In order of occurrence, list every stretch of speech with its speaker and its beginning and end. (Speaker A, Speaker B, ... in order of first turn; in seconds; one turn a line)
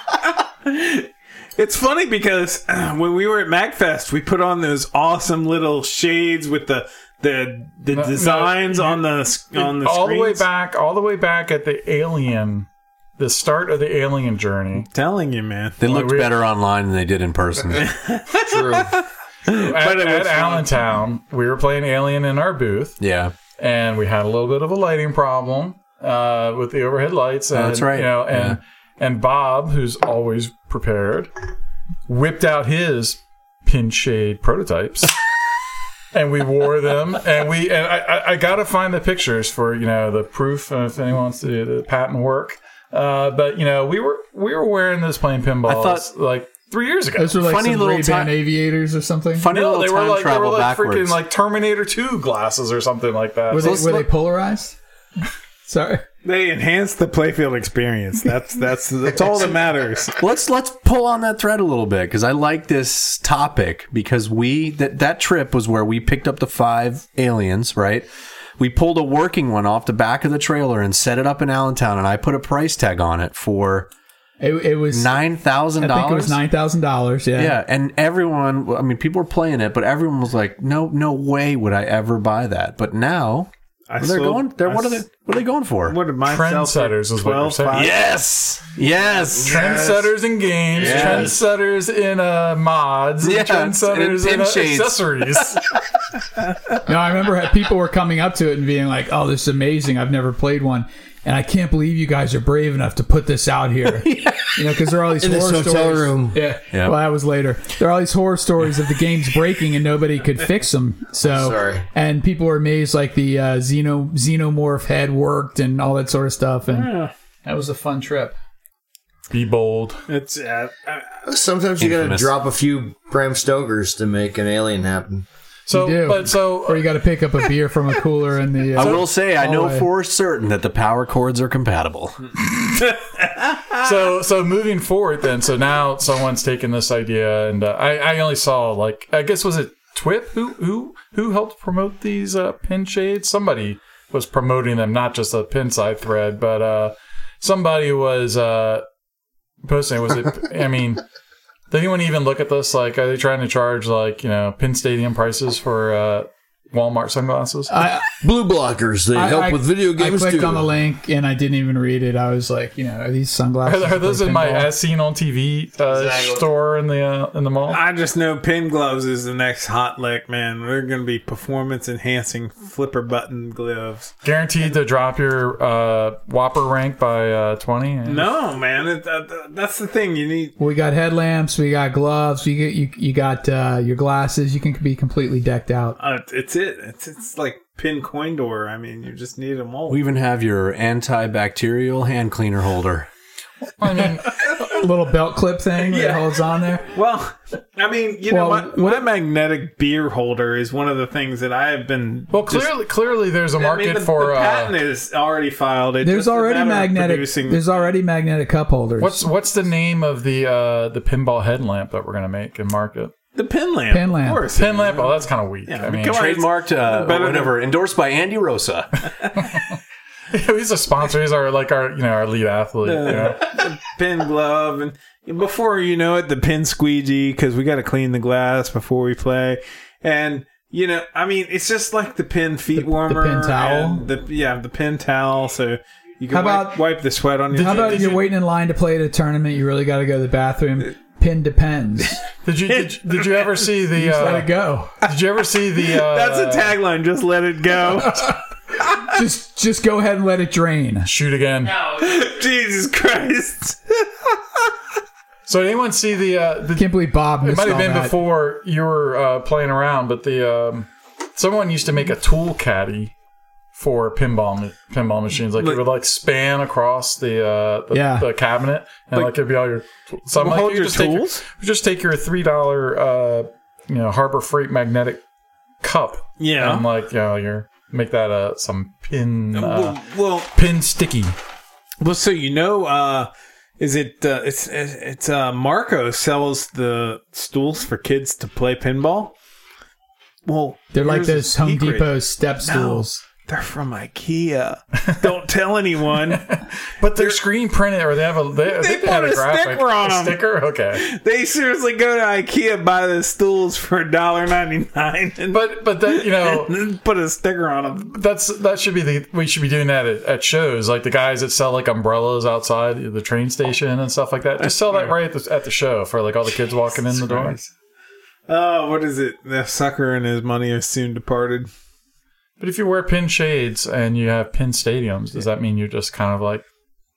Speaker A: 0.6-10.4
Speaker B: 7.9-12.7
Speaker B: 13.2-14.9
Speaker A: 14.8-15.8
Speaker C: 15.8-17.9
Speaker B: 15.8-16.4
Speaker A: 17.8-20.8
Speaker D: 18.4-18.9
Speaker B: 19.5-23.0
Speaker C: 23.0-23.3
Speaker B: 23.6-31.3
Speaker C: 27.5-28.6
Speaker B: 32.1-35.1
Speaker B: 36.1-47.4
Speaker C: 45.6-46.1
Speaker E: 47.2-49.5
Speaker C: 47.4-48.3
Speaker C: 49.4-51.2
Speaker B: 49.5-53.9
Speaker E: 53.5-54.8
Speaker C: 53.6-54.1
Speaker E: 55.6-56.0
Speaker A: 56.2-60.2
Speaker C: 60.1-73.9
Speaker E: 74.4-75.2
Speaker C: 74.9-76.4
Speaker E: 75.8-77.6
Speaker C: 77.3-86.0
Speaker A: 83.9-85.0
Speaker A: 85.8-88.0
Speaker B: 86.2-87.9
Speaker C: 87.7-89.9
Speaker B: 89.3-95.6
Speaker C: 90.8-91.4
Speaker C: 93.2-95.5
Speaker E: 96.8-118.3
Speaker C: 103.9-104.6
Speaker D: 105.2-106.4
Speaker C: 106.7-107.0
Speaker D: 111.2-111.8
Speaker A: 116.7-117.1
Speaker B: 119.3-120.0
Speaker A: 120.1-121.2
Speaker D: 121.2-125.2
Speaker C: 121.8-122.3
Speaker B: 125.7-127.0
Speaker E: 125.7-129.9
Speaker C: 128.7-132.3
Speaker A: 132.9-133.8
Speaker B: 133.7-148.8
Speaker B: 149.6-151.0
Speaker B: 151.7-157.7
Speaker E: 157.7-158.2
Speaker D: 158.2-160.7
Speaker E: 159.1-164.7
Speaker B: 163.6-167.8
Speaker D: 165.9-166.5
Speaker A: 167.7-174.2
Speaker B: 174.2-178.3
Speaker A: 178.1-180.6
Speaker E: 180.6-186.0
Speaker A: 186.0-190.1
Speaker C: 189.9-193.1
Speaker B: 193.8-194.7
Speaker E: 193.9-196.9
Speaker A: 195.9-196.2
Speaker A: 196.9-202.7
Speaker E: 198.3-199.0
Speaker B: 202.3-204.7
Speaker A: 203.6-207.7
Speaker E: 206.0-209.3
Speaker B: 209.0-213.1
Speaker A: 213.3-217.6
Speaker E: 213.9-214.4
Speaker B: 214.5-216.2
Speaker C: 216.0-219.1
Speaker B: 220.3-223.7
Speaker A: 222.8-238.2
Speaker E: 232.7-234.0
Speaker E: 236.3-236.8
Speaker B: 237.5-238.2
Speaker E: 237.5-242.2
Speaker B: 242.4-246.8
Speaker A: 242.7-243.7
Speaker E: 243.9-244.9
Speaker A: 245.8-248.4
Speaker E: 248.1-248.3
Speaker E: 248.9-251.1
Speaker B: 251.0-251.8
Speaker A: 251.8-254.6
Speaker B: 255.5-263.1
Speaker E: 256.8-258.1
Speaker B: 263.7-275.2
Speaker E: 267.9-268.3
Speaker A: 270.3-271.4
Speaker B: 275.8-280.0
Speaker A: 276.4-276.8
Speaker A: 279.5-280.5
Speaker B: 280.5-281.3
Speaker A: 282.0-289.4
Speaker A: 290.4-296.6
Speaker E: 290.9-293.2
Speaker B: 296.3-301.0
Speaker A: 298.6-308.1
Speaker B: 305.5-306.8
Speaker B: 308.0-317.6
Speaker A: 314.7-315.1
Speaker A: 317.1-317.6
Speaker A: 318.5-321.7
Speaker B: 322.6-326.6